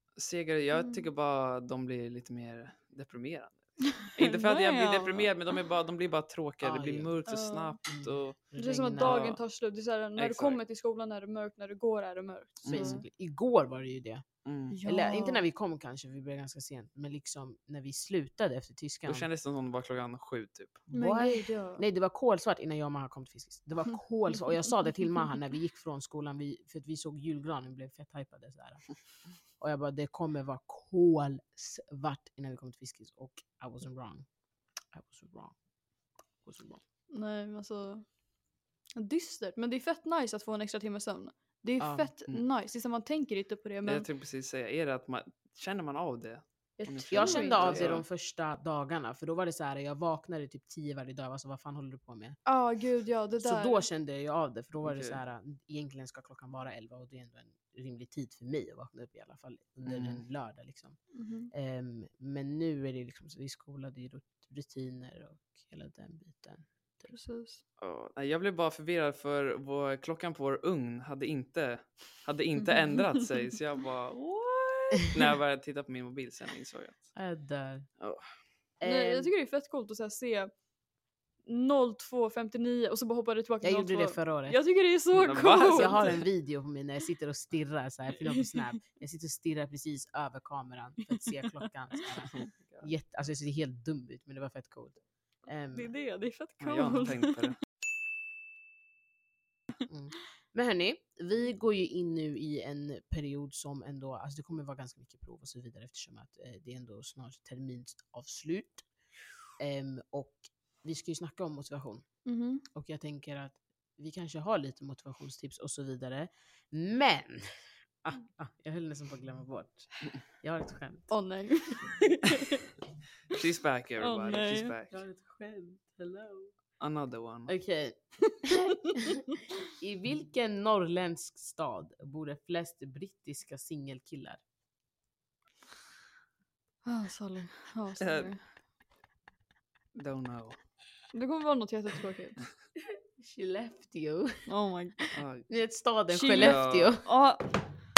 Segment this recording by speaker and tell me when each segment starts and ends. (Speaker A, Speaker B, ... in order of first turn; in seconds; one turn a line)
Speaker A: 0.2-8.4
Speaker B: 0.7-1.1
Speaker B: 4.2-5.3
Speaker C: 6.6-7.1
Speaker B: 7.3-7.8
Speaker C: 7.9-9.2
Speaker B: 8.6-13.0
Speaker A: 9.0-9.4
Speaker A: 10.2-10.6
Speaker C: 12.6-14.3
Speaker A: 12.7-13.0
Speaker A: 14.4-14.8
Speaker B: 14.7-15.4
Speaker C: 14.8-19.3
Speaker A: 19.1-20.8
Speaker C: 20.9-34.3
Speaker B: 20.9-21.8
Speaker C: 34.9-35.6
Speaker C: 36.4-36.8
Speaker B: 37.1-38.2
Speaker B: 39.0-44.1
Speaker C: 41.8-42.1
Speaker A: 43.8-48.0
Speaker C: 46.8-52.4
Speaker B: 47.1-48.0
Speaker B: 52.5-53.8
Speaker C: 53.4-61.0
Speaker A: 54.8-55.2
Speaker A: 59.9-60.2
Speaker B: 61.1-61.5
Speaker C: 61.5-67.1
Speaker B: 67.1-67.6
Speaker A: 67.8-77.2
Speaker C: 77.1-77.9
Speaker A: 78.0-78.4
Speaker C: 78.8-79.3
Speaker B: 78.8-80.6
Speaker B: 81.4-86.2
Speaker C: 83.6-84.6
Speaker A: 85.2-86.3
Speaker C: 85.7-96.0
Speaker A: 92.3-92.9
Speaker B: 95.7-97.5
Speaker A: 96.6-97.6
Speaker C: 99.9-108.9
Speaker C: 109.6-112.1
Speaker B: 112.3-112.6
Speaker C: 112.7-121.2
Speaker B: 121.1-122.6
Speaker A: 123.3-125.0
Speaker B: 124.0-124.7
Speaker C: 124.9-126.5
Speaker A: 126.8-127.5
Speaker C: 127.5-129.2
Speaker C: 129.8-134.4
Speaker B: 136.8-138.4
Speaker A: 138.0-138.4
Speaker A: 139.9-140.6
Speaker B: 141.1-142.4
Speaker C: 143.2-144.5
Speaker B: 144.5-145.1
Speaker C: 145.2-147.1
Speaker A: 145.2-145.5
Speaker B: 146.1-147.6
Speaker A: 146.3-146.9